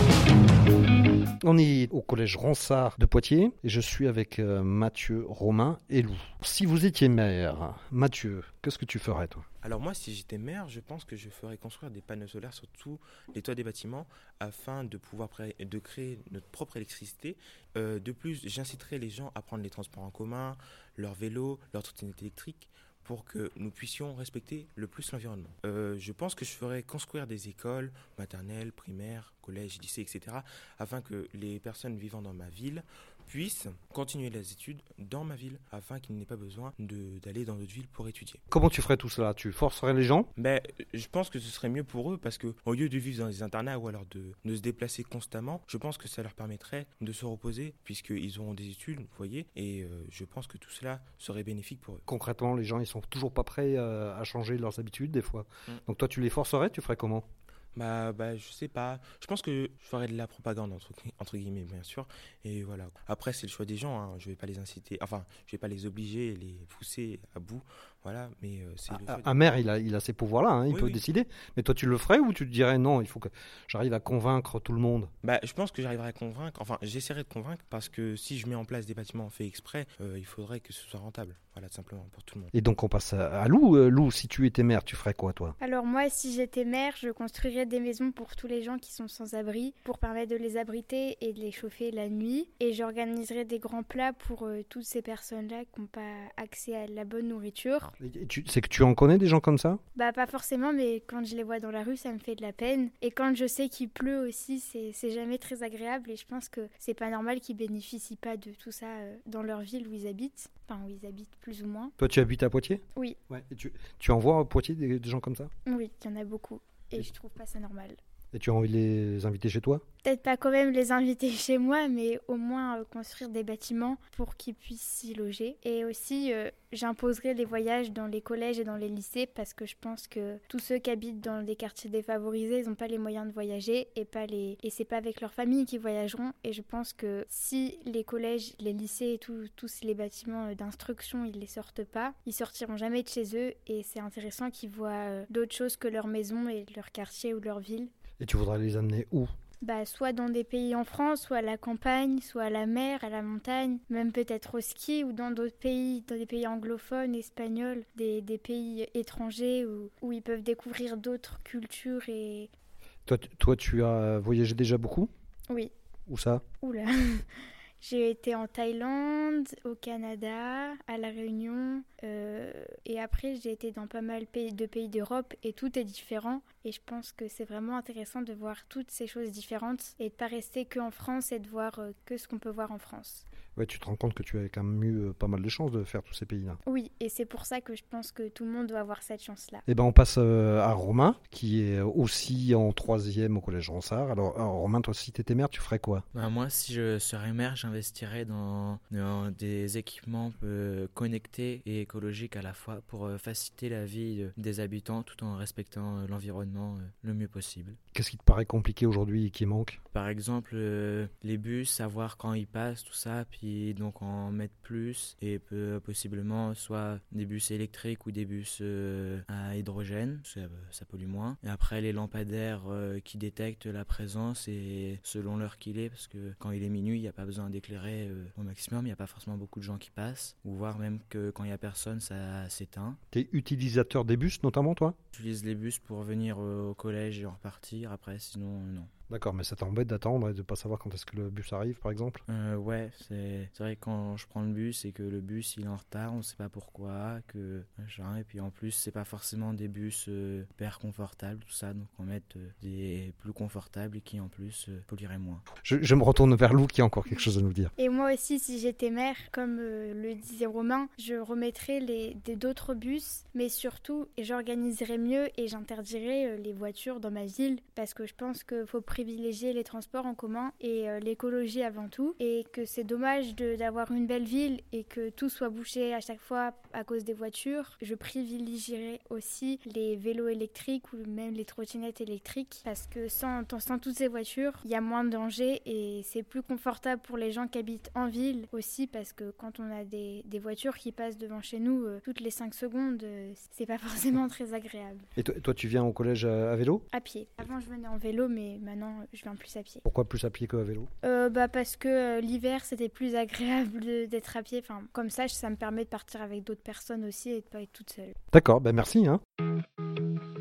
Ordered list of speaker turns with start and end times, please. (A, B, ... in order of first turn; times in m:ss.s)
0:01.4-0:09.4 A
0:09.6-0:38.4 B
0:38.5-0:40.3 A
0:40.4-0:52.0 B
0:52.1-0:57.2 A
0:57.7-1:09.4 B
1:08.9-1:15.1 A
1:10.7-1:11.0 B
1:15.2-1:22.5 B
1:22.5-1:25.6 A
1:25.6-1:37.9 C
1:38.0-1:39.8 A
1:39.9-1:51.9 C
1:52.0-1:55.5 A
1:55.6-1:58.0 C
1:58.3-1:59.8 A
2:00.0-2:27.9 C
2:28.2-2:29.3 A
2:29.6-2:42.5 C
2:43.1-2:45.1 A
2:46.1-2:46.4 A
2:46.6-3:03.2 C
3:03.6-3:06.6 A
3:06.6-3:09.6 C
3:09.7-3:16.0 A
3:16.1-3:27.8 D
3:27.9-3:29.8 A
3:29.9-3:53.0 D
3:53.1-3:55.0 A
3:55.1-3:58.9 D
3:59.1-4:02.2 A
4:02.3-4:15.4 D
4:15.6-4:17.7 A
4:17.8-4:55.0 C
4:55.2-4:56.8 A
4:56.9-4:59.8 C
4:59.8-5:00.9 A
5:01.0-5:08.2 C
5:08.3-5:09.2 A